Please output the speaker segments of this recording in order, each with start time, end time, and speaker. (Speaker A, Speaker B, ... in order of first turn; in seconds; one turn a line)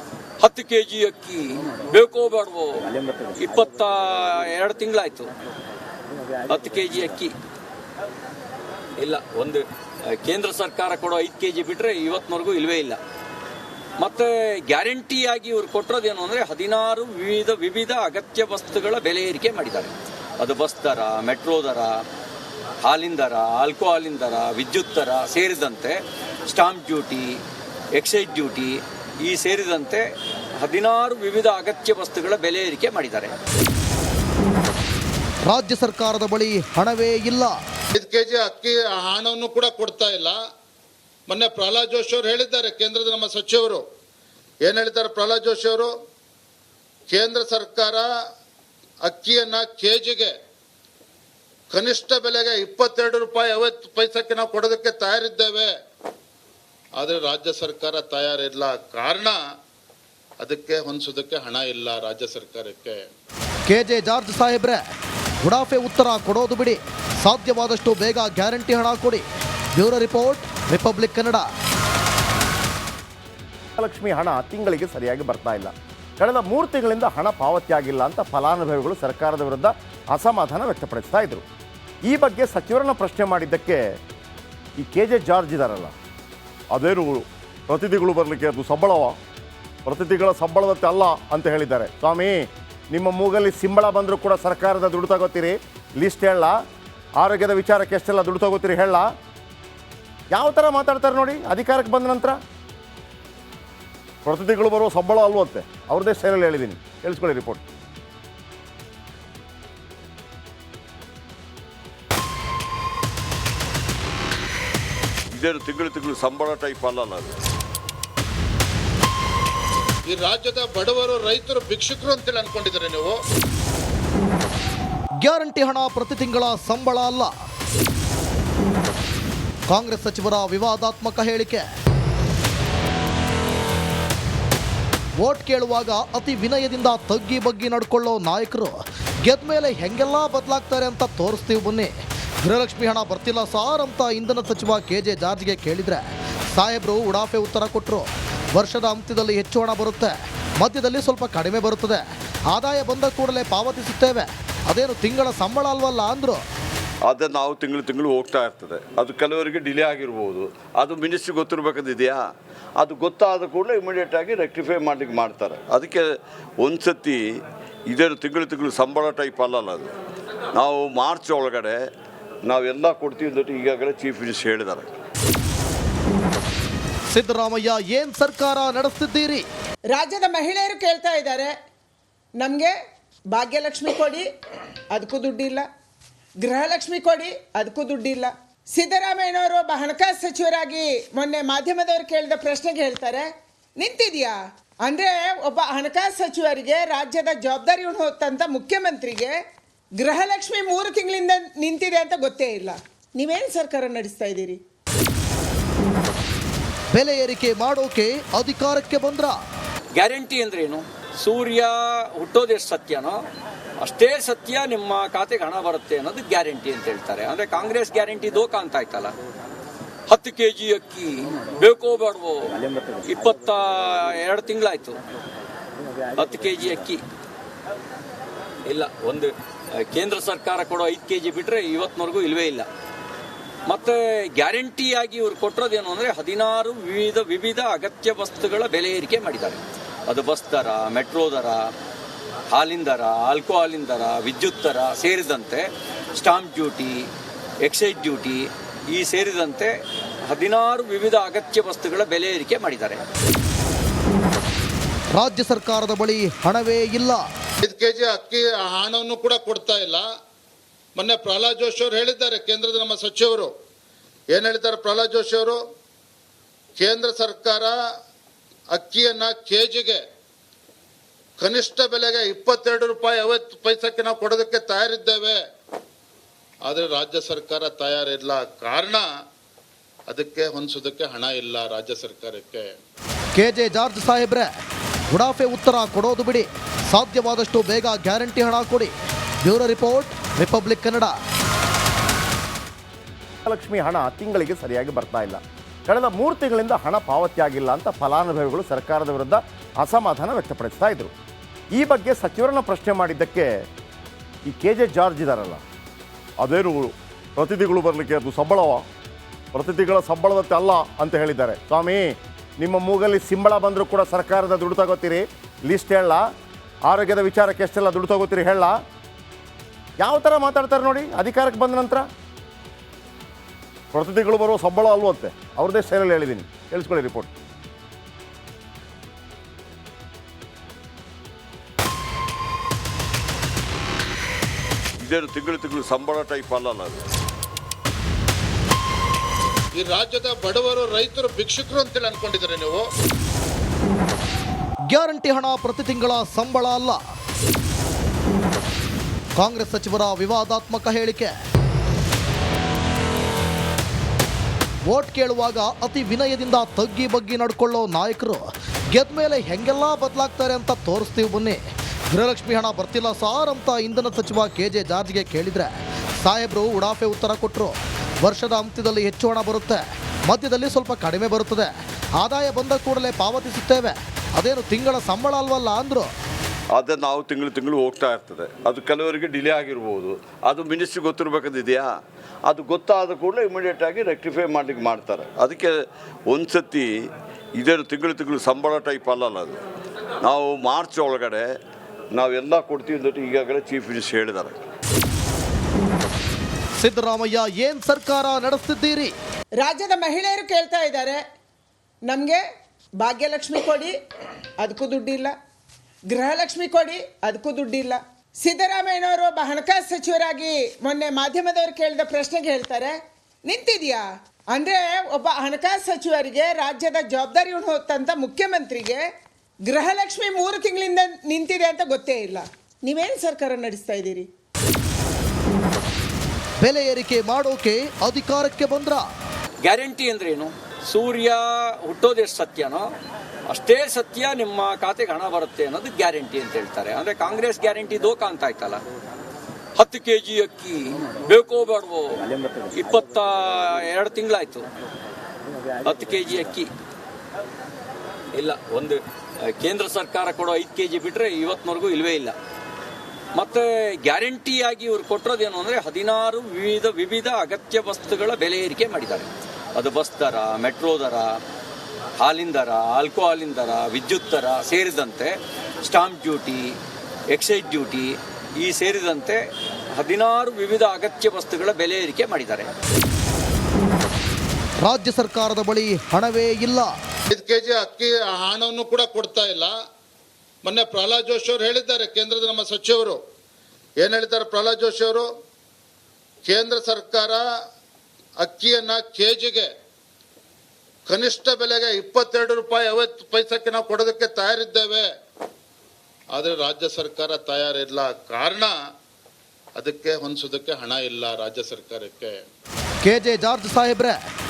Speaker A: 0.4-5.3
Speaker A: 6.5-7.3
Speaker A: 9.0-9.6
Speaker A: 10.2-13.0
Speaker A: 14.0-22.0
Speaker A: 22.8-27.4
Speaker A: 28.0-30.0
Speaker A: 30.6-33.3
Speaker B: 35.5-37.5
Speaker C: 37.9-40.4
Speaker C: 41.3-43.8
Speaker C: 44.6-45.9
Speaker C: 47.1-48.1
Speaker C: 49.0-50.3
Speaker C: 51.7-55.7
Speaker C: 57.0-59.4
Speaker C: 60.4-63.0
Speaker B: 63.7-64.8
Speaker B: 65.4-71.5
Speaker D: 73.8-81.4
Speaker D: 82.1-83.8
Speaker D: 84.8-86.0
Speaker D: 86.7-89.2
Speaker D: 89.9-96.6
Speaker D: 97.2-99.1
Speaker D: 100.3-102.4
Speaker D: 104.3-107.6
Speaker E: 115.3-117.3
Speaker C: 120.1-123.2
Speaker B: 125.2-127.3
Speaker B: 129.7-131.6
Speaker B: 135.2-141.9
Speaker B: 142.4-156.4
Speaker E: 157.1-162.3
Speaker E: 162.8-167.2
Speaker E: 167.9-169.9
Speaker E: 170.5-171.8
Speaker E: 172.5-174.9
Speaker B: 177.1-179.4
Speaker F: 179.9-181.5
Speaker F: 182.4-182.8
Speaker F: 183.3-184.3
Speaker F: 184.9-185.7
Speaker F: 186.4-199.4
Speaker F: 200.0-204.6
Speaker B: 206.9-209.4
Speaker A: 209.9-213.2
Speaker A: 213.8-219.1
Speaker A: 220.1-225.0
Speaker A: 226.2-227.0
Speaker A: 228.7-229.3
Speaker A: 229.9-232.7
Speaker A: 233.7-241.7
Speaker A: 242.5-247.1
Speaker A: 247.6-249.7
Speaker A: 250.3-253.0
Speaker B: 255.1-257.2
Speaker C: 257.6-260.0
Speaker C: 260.9-263.5
Speaker C: 264.3-265.6
Speaker C: 266.8-267.7
Speaker C: 268.7-270.0
Speaker C: 271.4-275.4
Speaker C: 276.6-279.1
Speaker C: 280.1-282.7
Speaker B: 283.4-284.5
Speaker B: 285.1-291.1
Speaker D: 293.4-301.1
Speaker D: 301.8-303.5
Speaker D: 304.5-305.6
Speaker D: 306.4-308.8
Speaker D: 309.5-316.2
Speaker D: 316.9-318.8
Speaker D: 320.0-322.1
Speaker D: 323.9-327.3
Speaker E: 335.0-337.0
Speaker C: 339.8-342.9
Speaker B: 344.9-347.0
Speaker B: 349.4-351.3
Speaker B: 354.9-361.6
Speaker B: 362.1-371.7
Speaker B: 372.2-376.1
Speaker E: 376.7-381.9
Speaker E: 382.5-385.8
Speaker E: 386.3-386.9
Speaker E: 387.6-389.6
Speaker E: 390.2-391.5
Speaker E: 392.1-394.6
Speaker B: 396.8-399.1
Speaker F: 399.6-401.2
Speaker F: 402.1-402.4
Speaker F: 403.0-403.9
Speaker F: 404.6-405.3
Speaker F: 406.1-419.0
Speaker F: 419.7-424.3
Speaker B: 426.6-429.1
Speaker A: 429.6-432.9
Speaker A: 433.5-438.8
Speaker A: 439.8-444.7
Speaker A: 445.8-446.7
Speaker A: 448.3-449.0
Speaker A: 449.6-452.4
Speaker A: 453.4-461.4
Speaker A: 462.2-466.7
Speaker A: 467.3-469.4
Speaker A: 469.9-472.7
Speaker B: 474.8-476.9
Speaker C: 477.3-479.7
Speaker C: 480.6-483.2
Speaker C: 484.0-485.3
Speaker C: 486.4-487.4
Speaker C: 488.4-489.7
Speaker C: 491.1-495.1
Speaker C: 496.3-498.7
Speaker C: 499.8-502.4
Speaker B: 503.0-504.2